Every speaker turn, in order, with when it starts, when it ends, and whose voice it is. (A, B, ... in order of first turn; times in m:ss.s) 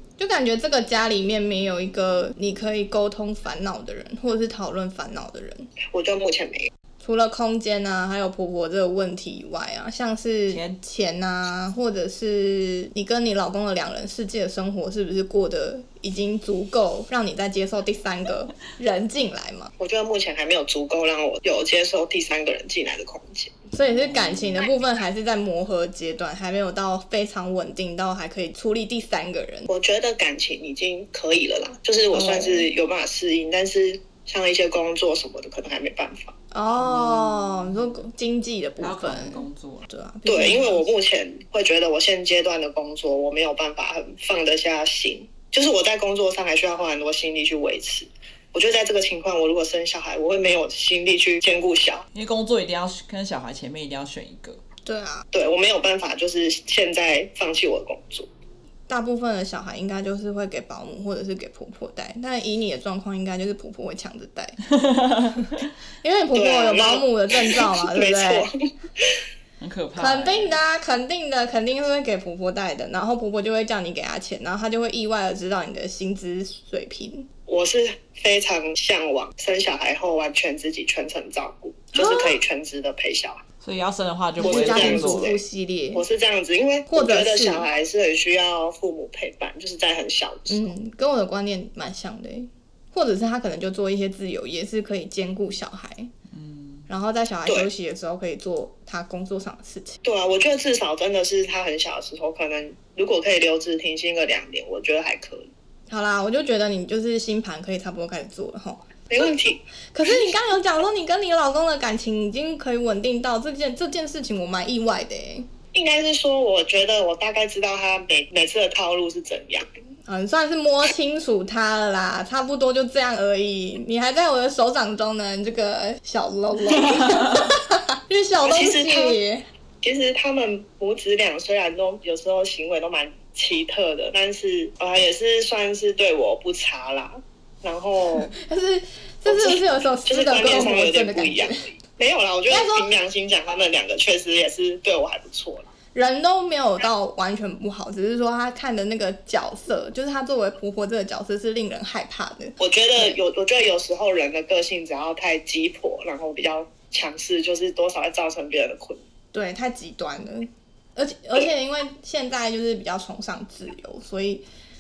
0:00.2-0:05.7 A
0:05.9-0:06.7 B
0:07.0-0:19.7 A
0:10.5-0:10.8 C
0:19.8-0:23.5 B
0:23.7-0:29.7 A
0:23.9-0:24.6 C
0:29.7-0:36.4 B
0:32.1-0:32.6 A
0:36.5-0:40.9 A
0:36.8-0:37.9 C
0:38.8-0:39.9 C
0:40.3-0:52.1 B
0:52.2-0:54.6 C
0:54.9-0:55.3 A
0:55.3-0:58.3 B
0:58.9-1:04.6 A
1:04.8-1:05.4 C
1:06.0-1:08.5 A
1:06.4-1:09.2 B
1:09.6-1:10.6 C
1:10.0-1:17.3 A
1:17.5-1:23.4 B
1:21.9-1:22.4 A
1:23.6-1:25.4 C
1:24.4-1:26.0 A
1:24.4-1:25.4 B
1:25.9-1:30.7 B
1:26.9-1:27.6 A
1:30.5-1:36.1 A
1:36.3-1:36.9 C
1:36.9-1:40.0 A
1:40.0-1:45.5 B
1:45.9-1:49.0 A
1:49.1-1:50.4 B
1:49.9-1:55.5 A
1:55.7-1:59.7 B
2:00.1-2:09.4 A
2:07.0-2:07.2 C
2:08.4-2:09.2 B
2:09.8-2:18.3 B
2:18.3-2:21.6 A
2:19.3-2:25.7 B
2:22.5-2:22.9 A
2:25.9-2:33.2 A
2:32.6-2:39.0 B
2:39.3-2:44.4 A